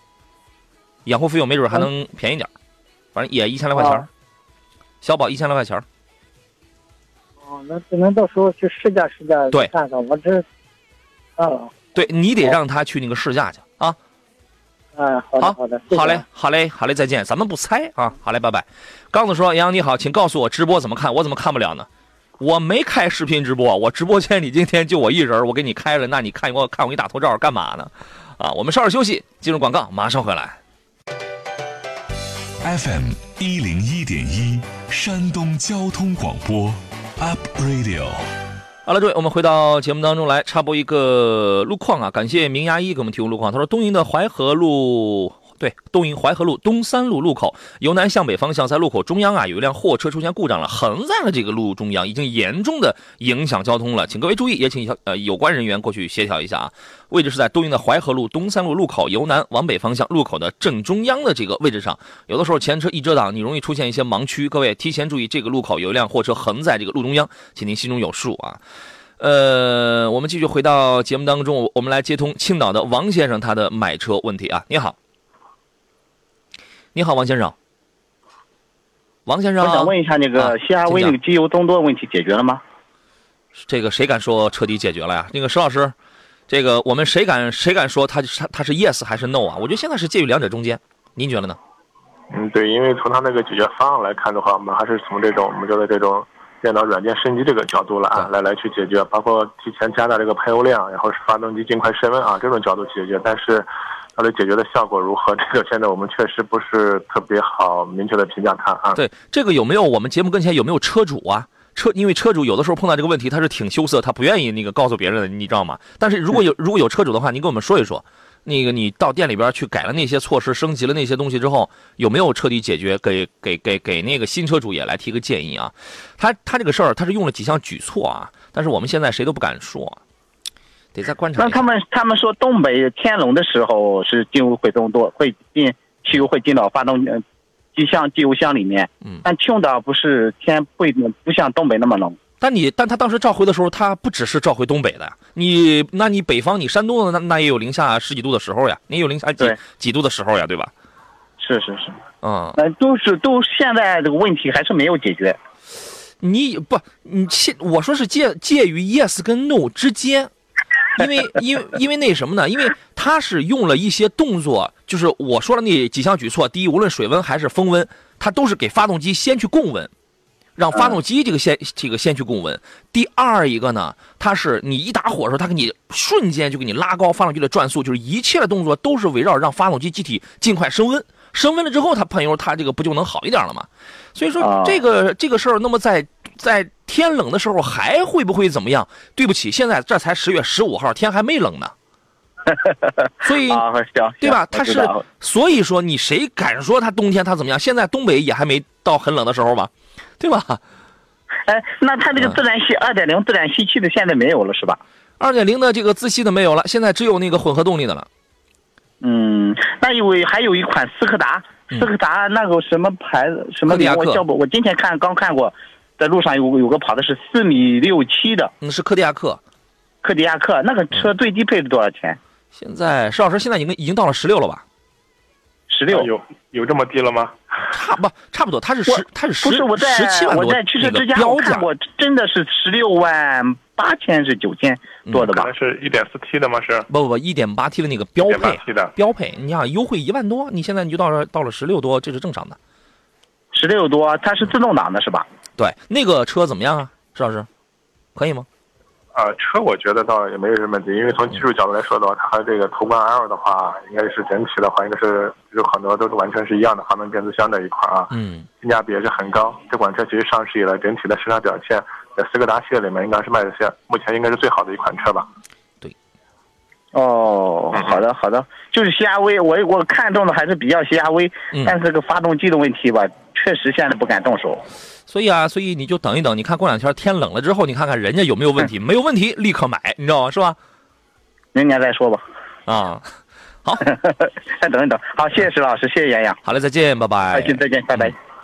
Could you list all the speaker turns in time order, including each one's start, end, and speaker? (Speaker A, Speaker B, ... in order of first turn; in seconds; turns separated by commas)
Speaker A: 1.1-2.5, Speaker A: 3.1-4.1, Speaker B: 3.8-4.0, Speaker A: 5.0-5.8, Speaker B: 7.5-10.4, Speaker B: 11.4-11.7, Speaker A: 11.9-14.0, Speaker B: 14.9-16.2, Speaker A: 15.4-21.9, Speaker A: 22.4-30.6, Speaker C: 32.6-38.2, Speaker A: 38.9-68.6, Speaker A: 69.2-75.0, Speaker A: 76.9-77.5, Speaker A: 79.2-81.2, Speaker D: 79.6-82.6, Speaker A: 83.6-85.9, Speaker A: 86.5-91.6, Speaker E: 92.3-109.0, Speaker A: 108.9-130.0, Speaker A: 130.9-131.6, Speaker D: 131.4-137.2, Speaker D: 137.7-142.2, Speaker A: 142.4-150.7, Speaker D: 151.4-152.0, Speaker A: 152.2-152.6, Speaker D: 152.6-155.4, Speaker A: 156.2-160.3, Speaker A: 160.9-169.9, Speaker A: 170.6-191.7, Speaker D: 184.4-184.8, Speaker D: 192.5-195.0, Speaker A: 193.2-193.6, Speaker A: 194.2-200.6, Speaker D: 201.4-204.8, Speaker A: 205.2-208.1, Speaker D: 209.0-218.5, Speaker A: 213.7-214.2, Speaker A: 218.6-219.4, Speaker D: 220.0-222.2, Speaker A: 222.5-224.6, Speaker D: 225.7-226.1, Speaker E: 225.9-227.4, Speaker A: 227.7-231.7, Speaker D: 228.9-235.5, Speaker A: 235.1-235.4, Speaker E: 235.3-236.9, Speaker A: 236.9-242.6, Speaker E: 238.3-238.9, Speaker D: 243.5-245.2, Speaker A: 245.6-247.5, Speaker A: 248.1-248.4, Speaker E: 249.1-265.3, Speaker A: 258.1-258.5, Speaker D: 266.9-274.6, Speaker E: 267.7-268.0, Speaker A: 275.1-280.6, Speaker D: 281.5-282.2, Speaker A: 282.7-283.0, Speaker D: 283.8-286.4, Speaker A: 286.4-288.1, Speaker D: 287.3-288.1